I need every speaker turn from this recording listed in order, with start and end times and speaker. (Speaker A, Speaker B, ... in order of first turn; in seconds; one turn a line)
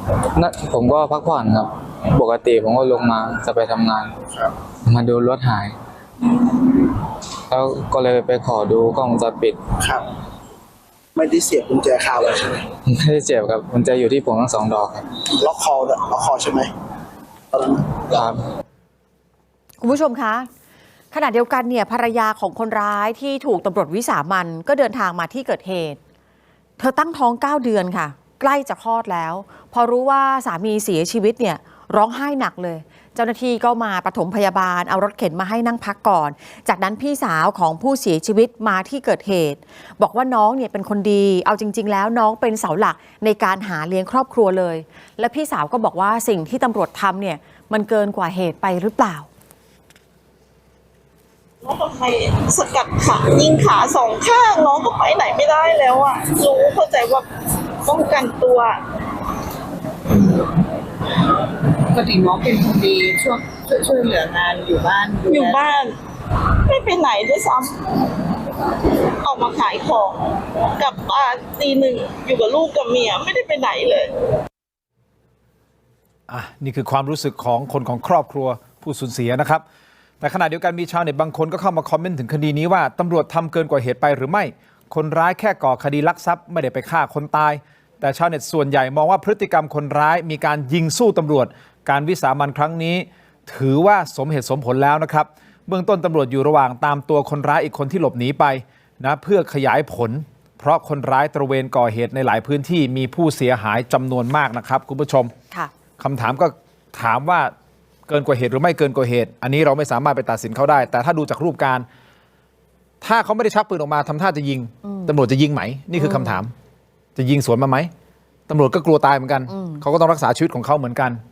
Speaker A: 0.3-4.2
Speaker A: 4.8-5.8
Speaker A: 7.5-9.6
Speaker B: 9.8-10.1
Speaker B: 11.2-12.7
Speaker A: 12.8-15.1
Speaker B: 15.2-16.7
Speaker B: 17.5-18.1
Speaker A: 18.1-18.4
Speaker C: 19.8-20.5
Speaker C: 21.1-26.0
Speaker C: 26.8-49.3
Speaker D: 51.6-57.3
Speaker D: 57.9-58.8
Speaker E: 60.1-60.5
Speaker E: 61.9-65.7
Speaker D: 65.3-65.9
Speaker D: 66.7-67.8
Speaker D: 69.2-70.2
Speaker D: 70.8-74.1
Speaker F: 76.3-79.6
Speaker F: 80.2-105.3
Speaker F: 106.0-107.5
Speaker F: 108.1-111.9
Speaker F: 113.0-116.5
Speaker C: 116.0-116.4
Speaker F: 117.2-117.9
Speaker F: 118.5-121.2
Speaker C: 119.5-119.8